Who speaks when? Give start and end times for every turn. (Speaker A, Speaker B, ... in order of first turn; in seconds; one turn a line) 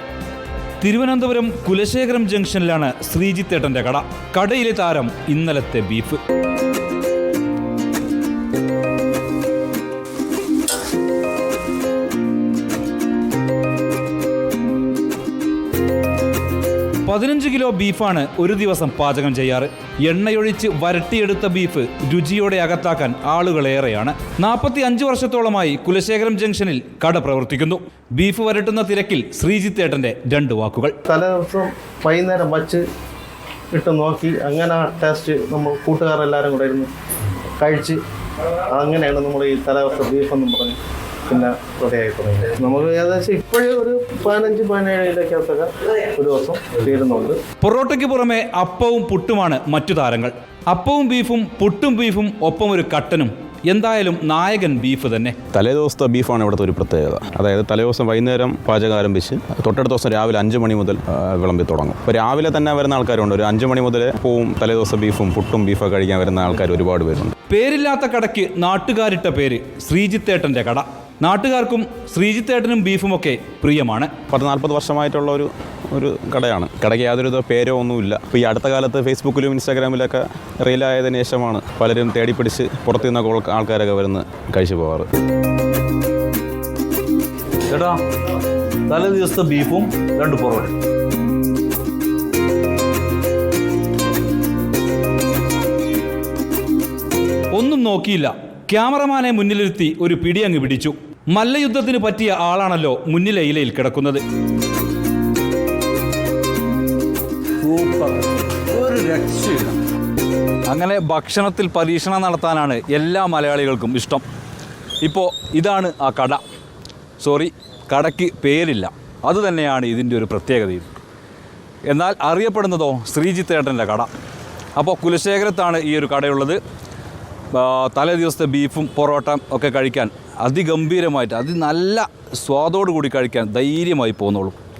Speaker A: 0.8-6.2
Speaker A: 17.0-30.9
Speaker B: 31.1-32.8
Speaker B: 33.7-36.9
Speaker B: 37.6-38.0
Speaker B: 38.7-47.4
Speaker A: 47.6-55.4
Speaker C: 55.5-67.3
Speaker A: 67.5-74.1
Speaker C: 74.3-85.1
Speaker A: 87.7-88.0
Speaker A: 88.9-90.7
Speaker A: 97.5-104.2
Speaker A: 107.6-108.2
Speaker A: 108.7-109.7
Speaker A: 110.7-114.2
Speaker A: 115.0-116.4
Speaker A: 117.2-120.9
Speaker A: 121.8-124.1
Speaker A: 124.8-126.6
Speaker A: 127.5-134.6